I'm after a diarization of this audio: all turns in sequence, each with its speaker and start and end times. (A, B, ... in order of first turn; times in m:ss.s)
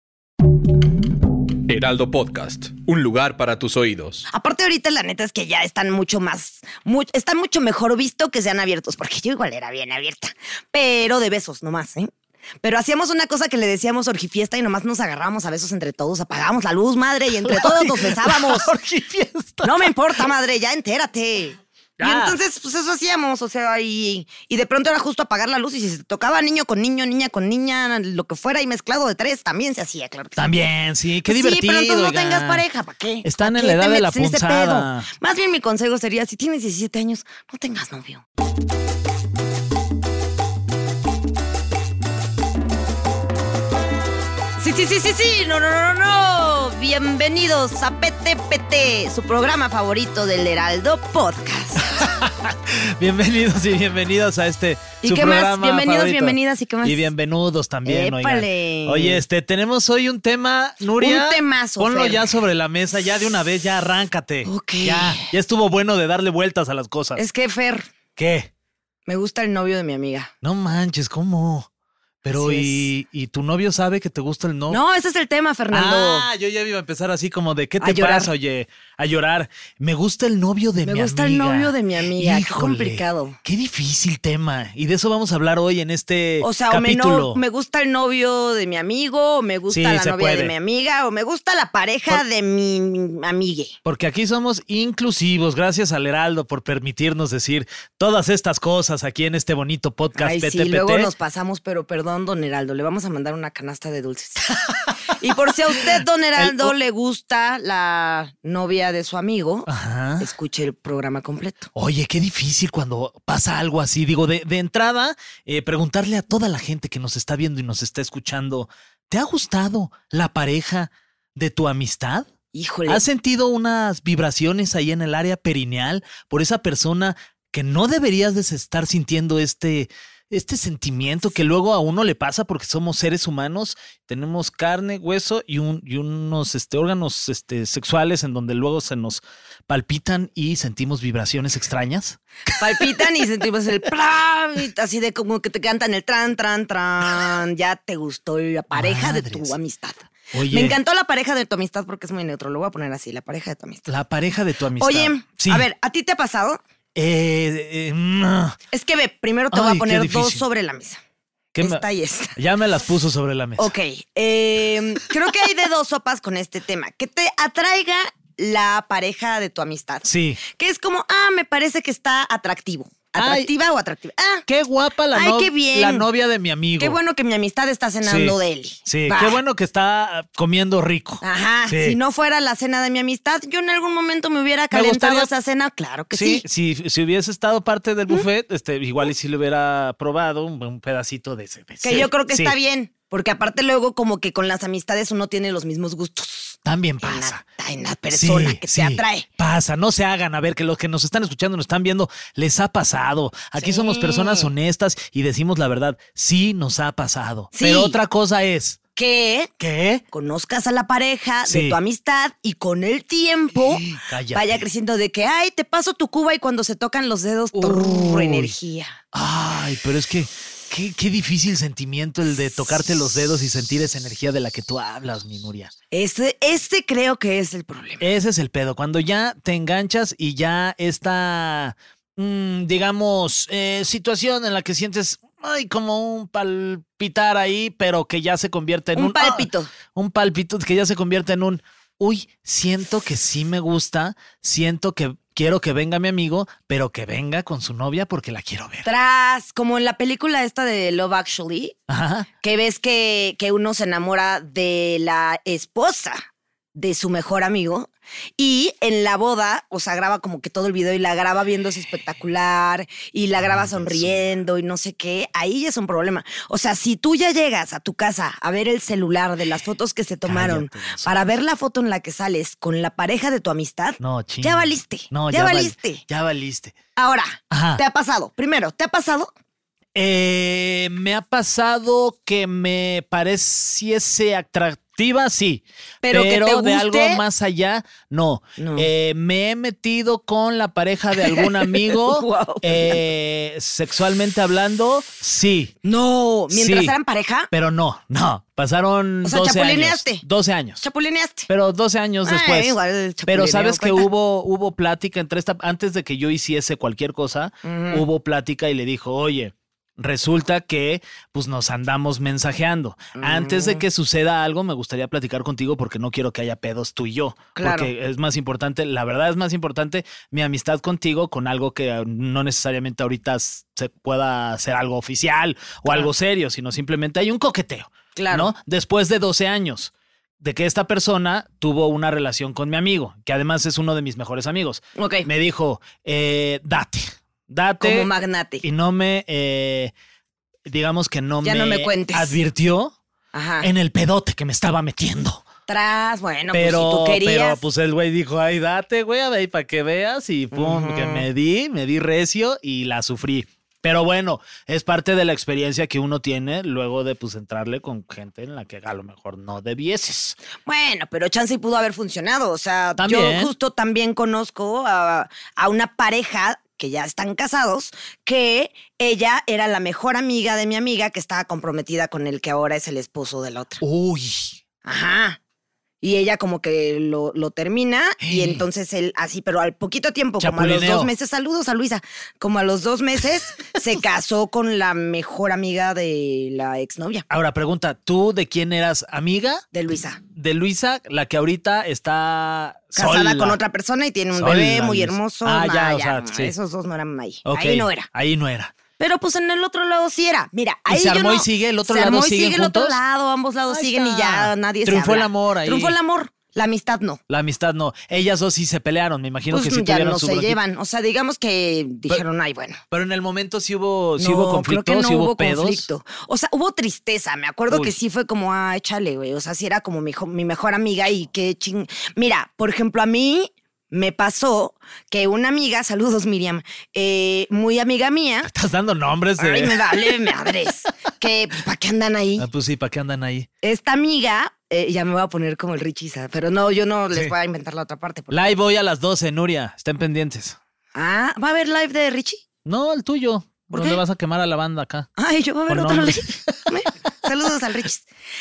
0:01.7-0:04.2 A
0:04.3-0:12.1 B
0:12.6-0:18.7 B
0:17.4-0:20.3 C
0:19.6-0:30.7 B
0:22.0-0:22.4 C
0:30.4-0:32.6 C
0:31.2-0:38.2 B
0:33.2-0:35.1 C
0:44.6-0:52.0 B
0:51.8-1:07.2 C
0:55.0-0:57.1 B
0:57.8-0:59.2 B
1:01.0-1:02.2 B
1:04.4-1:05.3 B
1:07.2-1:07.8 B
1:08.2-1:08.5 C
1:09.1-1:10.3 B
1:10.4-1:11.7 C
1:12.2-1:14.8 C
1:12.3-1:12.9 B
1:14.7-1:16.3 B
1:15.7-1:27.4 C
1:17.8-1:18.3 B
1:20.8-1:23.4 B
1:26.4-1:33.7 B
1:29.7-1:30.5 C
1:33.8-1:41.1 C
1:40.2-1:49.7 B
1:45.8-1:46.8 C
1:49.7-1:50.3 C
1:50.2-1:51.7 B
1:51.8-2:02.3 C
2:02.5-2:03.0 B
2:02.9-2:22.9 C
2:22.6-2:33.9 B
2:28.7-2:29.5 C
2:30.3-2:30.8 C
2:33.9-2:35.7 C
2:34.8-2:36.6 B
2:37.0-2:38.6 C
2:38.7-2:41.0 B
2:39.5-2:40.4 C
2:41.6-2:41.8 C
2:41.6-2:42.4 B
2:42.3-2:43.7 C
2:43.6-2:54.5 B
2:50.0-2:50.4 C
2:53.2-2:53.5 C
2:54.5-2:57.0 C
2:55.1-2:56.1 B
2:56.8-2:59.4 B
2:58.0-3:02.0 C
3:01.2-3:06.4 B
3:04.7-3:05.3 C
3:06.1-3:12.6 C
3:11.8-3:19.2 B
3:16.6-3:17.4 C
3:18.1-3:28.8 C
3:23.6-3:24.5 B
3:27.6-3:28.0 B
3:29.0-3:29.5 B
3:29.6-3:30.0 C
3:30.1-3:33.8 B
3:31.5-3:31.8 C
3:33.6-3:34.7 C
3:34.3-3:39.0 B
3:37.6-3:38.5 C
3:39.1-3:45.7 C
3:45.9-3:48.0 B
3:48.0-4:08.9 C
3:58.9-3:59.7 B
4:08.8-4:11.8 B
4:11.9-4:12.3 C
4:12.4-4:16.2 B
4:16.8-4:36.0 B
4:23.4-4:24.3 C
4:30.2-4:31.2 C
4:34.0-4:36.7 C
4:37.0-4:39.3 B
4:37.5-4:37.8 C
4:40.0-4:55.8 C
4:46.0-4:47.2 B
4:48.6-4:48.9 B
4:51.2-4:53.0 B
4:55.8-4:57.5 B
4:56.5-4:56.9 C
4:57.5-5:00.8 C
4:59.2-5:00.2 B
5:00.8-5:01.5 B
5:01.5-5:38.1 C
5:02.2-5:04.1 B
5:07.6-5:08.0 B
5:13.2-5:13.8 B
5:17.6-5:17.9 B
5:25.9-5:26.1 B
5:28.2-5:28.5 B
5:35.0-5:35.3 B
5:37.8-5:38.6 B
5:38.6-5:39.9 C
5:40.7-5:42.9 C
5:41.4-5:42.4 B
5:43.3-5:43.7 B
5:43.6-5:45.4 C
5:45.7-5:47.6 B
5:46.5-6:00.4 C
5:50.5-5:51.3 B
6:00.6-6:13.8 B
6:03.0-6:03.5 C
6:13.8-6:14.6 C
6:14.9-6:15.4 B
6:16.0-6:27.2 B
6:18.2-6:18.6 C
6:20.4-6:21.1 C
6:27.3-6:29.6 C
6:29.7-6:30.2 B
6:30.3-6:33.6 C
6:33.0-6:38.1 B
6:34.4-6:36.6 C
6:37.4-6:38.7 C
6:39.0-6:47.2 B
6:40.9-6:43.0 C
6:43.7-6:46.0 C
6:47.3-6:50.6 C
6:49.5-6:52.8 B
6:52.9-6:55.9 C
6:54.2-7:08.5 B
6:57.7-6:58.0 C
7:08.5-7:10.3 C
7:09.4-7:12.4 B
7:12.4-7:13.5 C
7:13.6-7:18.5 B
7:18.3-7:20.6 C
7:20.9-7:22.4 B
7:22.6-7:25.1 C
7:23.7-7:24.0 B
7:25.2-7:28.0 B
7:25.7-7:26.7 C